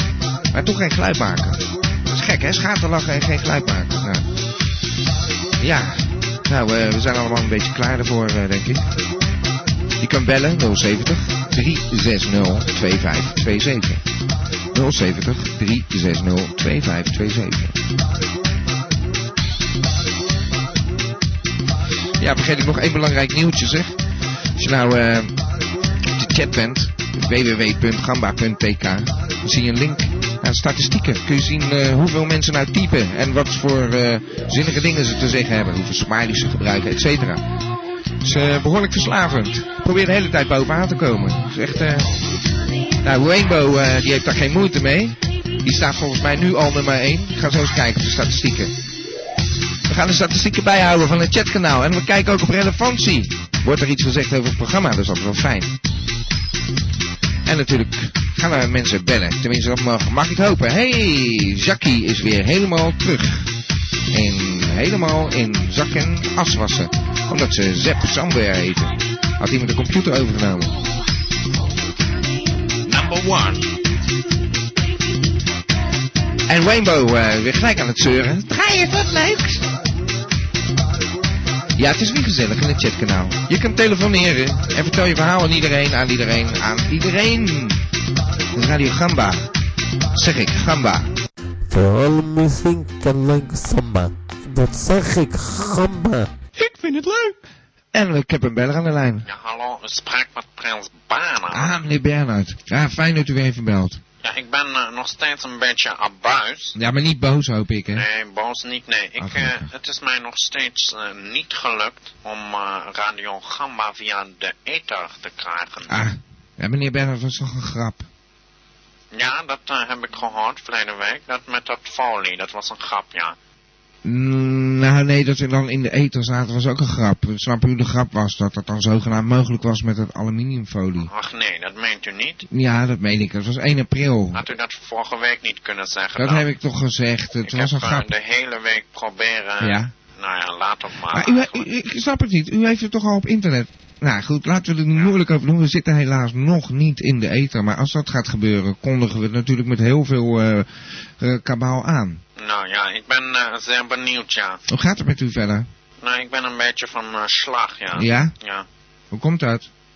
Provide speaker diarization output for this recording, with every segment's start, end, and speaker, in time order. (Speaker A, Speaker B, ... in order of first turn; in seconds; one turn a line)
Speaker A: 0.5-4.2
Speaker A: 5.6-8.8
Speaker A: 10.0-14.0
Speaker A: 14.7-17.7
Speaker A: 22.2-24.0
Speaker A: 24.6-25.3
Speaker A: 26.1-37.4
Speaker A: 38.2-42.2
Speaker A: 43.0-48.7
Speaker A: 49.9-55.7
Speaker A: 57.4-63.4
Speaker A: 64.1-70.8
Speaker A: 72.8-73.7
Speaker A: 76.5-79.6
Speaker A: 81.8-87.8
Speaker A: 88.5-89.5
Speaker A: 90.1-91.1
Speaker B: 91.7-96.3
Speaker A: 97.9-99.3
Speaker C: 99.2-101.8
Speaker A: 101.5-104.0
Speaker C: 104.2-106.8
Speaker A: 106.8-108.0
Speaker C: 107.9-116.1
Speaker A: 109.2-109.7
Speaker A: 115.9-118.0
Speaker C: 119.1-123.3
Speaker A: 124.0-131.1
Speaker C: 131.0-132.4
Speaker A: 132.5-134.4
Speaker C: 134.3-136.4
Speaker A: 136.2-138.1
Speaker C: 137.5-141.7
Speaker A: 139.6-139.9
Speaker A: 141.1-152.2
Speaker C: 152.4-154.6
Speaker A: 154.7-155.7
Speaker C: 156.0-158.7
Speaker A: 157.9-158.3
Speaker A: 159.1-159.7